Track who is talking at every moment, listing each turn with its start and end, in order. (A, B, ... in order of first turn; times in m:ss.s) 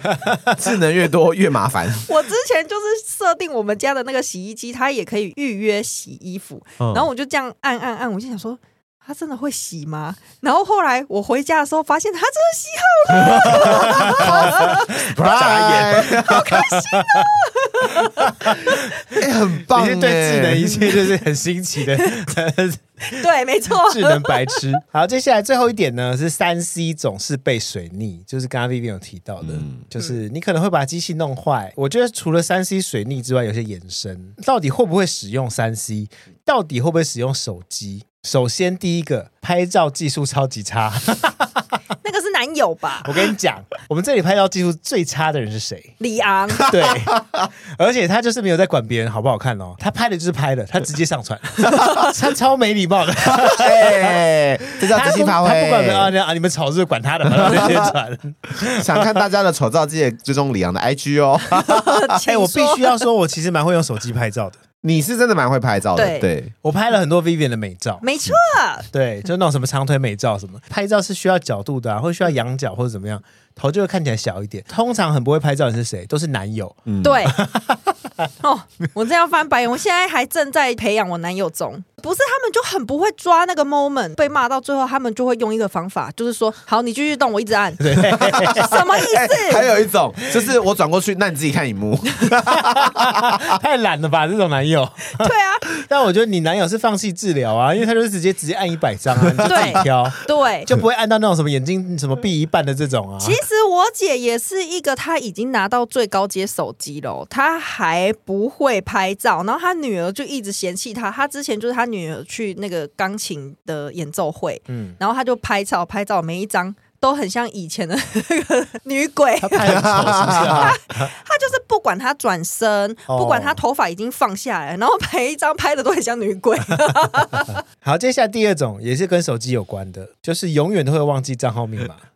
0:00.5-0:02.1 A
0:02.0-0:19.1 B
0:06.8-0:07.1 A
0:13.4-0:16.8 A
0:13.5-0:17.2 C
0:18.2-0:41.6 C
0:19.1-0:20.8 A
0:23.1-0:24.6 B
0:29.4-0:29.9 A
0:42.0-0:43.2 B
0:43.0-0:46.0 C
0:46.0-0:46.7 B
0:46.6-0:54.2 C
0:46.7-0:47.5 A
0:51.7-0:52.1 B
0:53.3-0:56.1 A
0:54.8-0:59.2 C
0:57.4-0:57.9 A
0:58.7-1:02.0 A
1:01.5-1:03.0 B
1:02.2-1:04.6 C
1:04.8-1:06.5 A
1:06.0-1:06.3 B
1:06.6-1:08.0 C
1:08.0-1:08.9 B
1:08.9-1:18.3 C
1:16.8-1:17.2 A
1:17.0-1:17.4 B
1:18.4-1:29.7 B
1:27.8-1:28.8 C
1:28.1-1:33.5 A
1:32.4-1:43.4 C
1:35.2-1:35.7 B
1:39.5-1:40.7 B
1:43.2-2:07.6 B
1:54.7-1:55.0 C
1:59.4-2:01.1 C
1:59.6-2:00.7 A
2:03.1-2:03.6 C
2:07.8-2:12.0 C